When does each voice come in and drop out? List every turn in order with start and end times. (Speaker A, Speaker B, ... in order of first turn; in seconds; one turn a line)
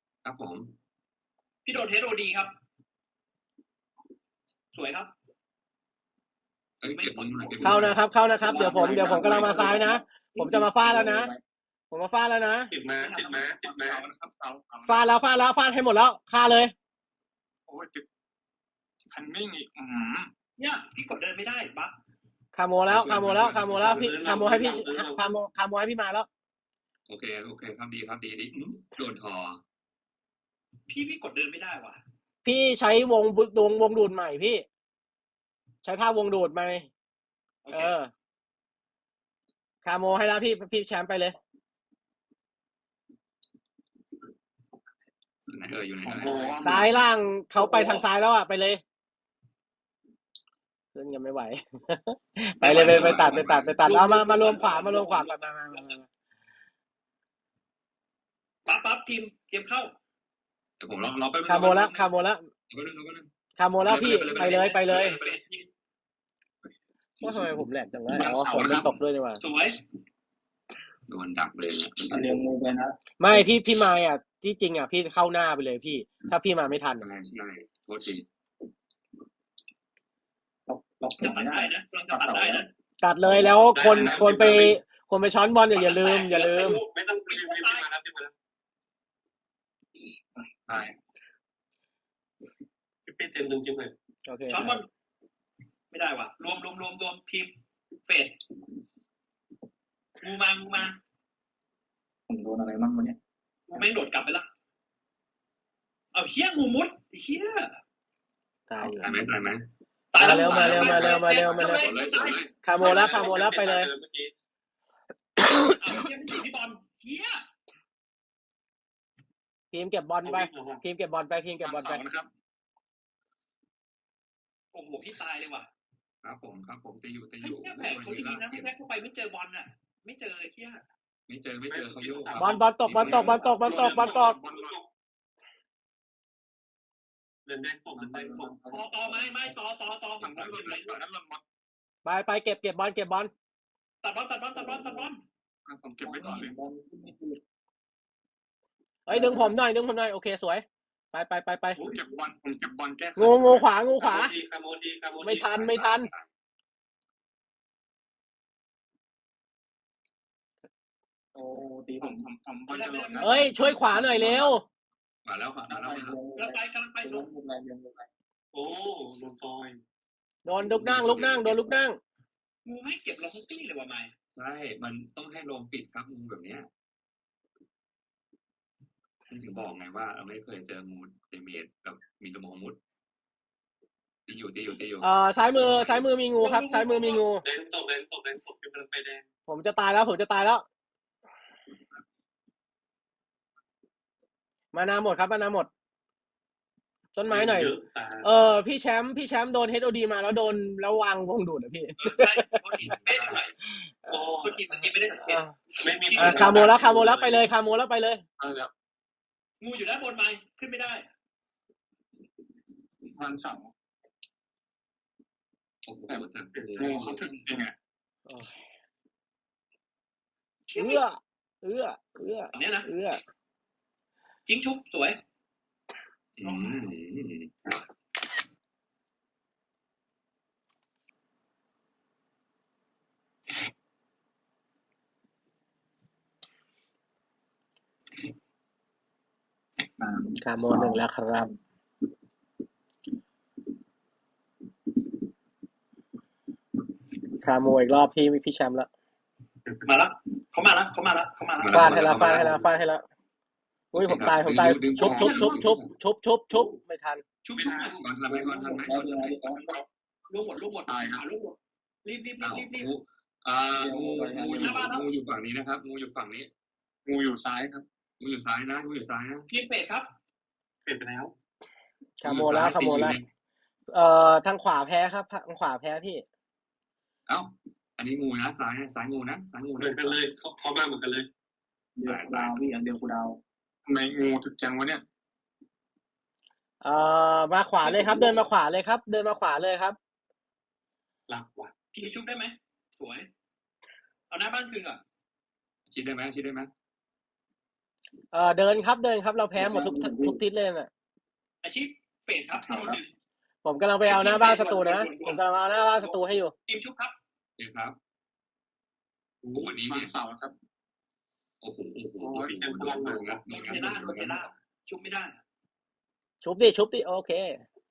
Speaker A: 0.2-0.7
Speaker B: 1.6-2.5
Speaker B: 4.7-5.1
Speaker A: 6.8-8.0
Speaker B: 6.9-8.0
Speaker C: 7.6-11.3
Speaker D: 8.4-11.4
Speaker E: 8.5-9.9
Speaker C: 11.9-12.7
Speaker F: 12.7-14.1
Speaker B: 12.9-13.7
Speaker E: 13.7-15.1
Speaker C: 14.8-16.7
Speaker E: 17.7-18.1
Speaker E: 19.1-20.3
Speaker B: 20.6-21.9
Speaker C: 22.5-26.3
Speaker A: 22.9-24.1
Speaker F: 23.8-25.3
Speaker A: 27.1-29.6
Speaker B: 30.9-32.0
Speaker C: 32.4-34.6
Speaker C: 35.8-36.9
Speaker B: 37.6-38.0
Speaker C: 37.7-38.1
Speaker C: 39.8-41.4
Speaker A: 45.5-46.7
Speaker E: 46.0-47.0
Speaker C: 46.6-48.8
Speaker C: 50.9-56.0
Speaker B: 52.6-55.9
Speaker A: 52.7-53.8
Speaker B: 58.6-59.9
Speaker A: 60.8-62.1
Speaker C: 61.5-62.5
Speaker A: 62.7-63.3
Speaker C: 63.6-65.2
Speaker A: 63.8-65.5
Speaker B: 64.2-65.7
Speaker C: 67.2-69.4
Speaker E: 68.1-69.0
Speaker B: 69.4-69.8
Speaker A: 71.1-72.3
Speaker D: 72.1-73.5
Speaker C: 73.2-77.0
Speaker A: 77.0-78.2
Speaker D: 80.7-82.7
Speaker B: 81.2-82.7
Speaker C: 83.0-86.8
Speaker F: 83.5-84.8
Speaker E: 83.8-84.6
Speaker B: 85.7-87.8
Speaker F: 86.6-88.3
Speaker E: 90.6-90.9
Speaker F: 93.0-93.9
Speaker C: 94.2-94.8
Speaker B: 94.5-94.9
Speaker B: 95.9-97.5
Speaker B: 98.0-98.4
Speaker B: 100.2-101.0
Speaker D: 102.3-103.2
Speaker B: 103.7-104.5
Speaker B: 106.1-107.8
Speaker C: 108.7-109.2
Speaker A: 108.8-109.7
Speaker B: 110.1-112.4
Speaker C: 110.2-111.9
Speaker A: 110.3-112.6
Speaker C: 112.6-113.9
Speaker F: 112.7-114.3
Speaker C: 115.4-115.6
Speaker B: 115.7-117.4
Speaker C: 119.7-122.0
Speaker F: 120.2-120.8
Speaker E: 121.6-122.3
Speaker B: 124.7-125.7
Speaker A: 126.2-128.7
Speaker B: 127.4-130.8
Speaker A: 131.3-133.5
Speaker F: 131.7-132.7
Speaker C: 132.4-134.3
Speaker E: 133.6-134.8
Speaker F: 133.7-134.9
Speaker F: 137.4-138.5
Speaker D: 137.9-139.3
Speaker B: 138.7-141.0
Speaker A: 140.2-141.0
Speaker E: 140.2-141.4
Speaker C: 142.0-143.3
Speaker B: 144.0-145.2
Speaker D: 144.5-145.1
Speaker E: 145.7-146.6
Speaker D: 146.0-147.4
Speaker C: 149.1-151.8
Speaker D: 149.1-149.6
Speaker B: 151.8-152.1
Speaker E: 151.9-153.7
Speaker C: 153.2-154.3
Speaker F: 154.0-155.7
Speaker C: 155.2-156.1
Speaker A: 155.5-156.3
Speaker D: 161.3-162.3
Speaker E: 162.0-164.5
Speaker B: 162.7-163.3
Speaker C: 163.2-164.6
Speaker A: 165.2-166.2
Speaker D: 165.7-168.1
Speaker B: 166.4-167.3
Speaker F: 168.5-169.8
Speaker C: 170.4-172.0
Speaker A: 170.6-171.6
Speaker B: 172.6-174.1
Speaker A: 174.3-176.7
Speaker A: 179.3-182.8
Speaker A: 184.3-186.1
Speaker C: 185.0-187.4
Speaker B: 186.4-187.2
Speaker F: 187.4-189.2
Speaker C: 189.5-190.6
Speaker C: 194.7-195.7
Speaker C: 197.1-202.9
Speaker F: 197.3-198.3
Speaker B: 202.0-203.5
Speaker A: 202.8-203.5
Speaker C: 203.8-204.2
Speaker F: 204.1-204.6
Speaker B: 204.3-206.6
Speaker C: 205.3-205.5
Speaker F: 205.8-207.5
Speaker C: 206.2-208.2
Speaker E: 208.4-208.7
Speaker B: 209.6-211.1
Speaker E: 213.1-213.7
Speaker A: 215.8-217.4
Speaker E: 216.1-217.7
Speaker F: 216.5-217.2
Speaker B: 220.7-221.0
Speaker C: 220.7-223.2
Speaker B: 222.5-222.9
Speaker B: 224.4-225.2
Speaker A: 226.4-227.5
Speaker B: 226.4-226.8
Speaker D: 240.0-241.5
Speaker C: 240.4-241.5
Speaker C: 247.4-248.9
Speaker B: 249.8-252.1
Speaker A: 251.6-252.6
Speaker C: 251.7-253.0
Speaker F: 252.2-252.6
Speaker C: 253.9-257.2
Speaker A: 253.9-255.9
Speaker E: 255.0-255.4
Speaker B: 257.4-258.0
Speaker F: 257.6-258.0
Speaker A: 258.0-259.6
Speaker D: 258.2-259.6
Speaker E: 259.6-259.8
Speaker B: 260.3-262.9
Speaker E: 260.9-261.2
Speaker A: 262.4-266.5
Speaker D: 263.7-264.9
Speaker B: 264.6-265.0
Speaker E: 267.1-267.8
Speaker A: 268.2-269.5
Speaker B: 269.5-270.1
Speaker F: 270.8-271.3
Speaker C: 272.2-273.2
Speaker A: 272.2-273.3
Speaker C: 273.9-276.2
Speaker A: 277.3-280.2
Speaker F: 279.8-281.3
Speaker D: 281.9-283.4
Speaker A: 282.0-282.6
Speaker E: 283.9-285.0
Speaker C: 286.8-289.9
Speaker F: 291.3-291.7
Speaker B: 291.9-293.3
Speaker B: 294.3-295.0
Speaker A: 295.9-296.7
Speaker C: 298.3-300.9
Speaker D: 299.5-300.4
Speaker B: 301.6-303.1
Speaker D: 302.6-303.0
Speaker C: 303.6-306.5
Speaker B: 304.0-307.1
Speaker A: 307.6-308.0
Speaker F: 309.4-309.7
Speaker A: 309.5-310.1
Speaker E: 309.7-310.5
Speaker A: 311.6-314.5
Speaker E: 312.2-312.5
Speaker F: 312.4-313.4
Speaker B: 313.5-315.4
Speaker C: 316.4-317.6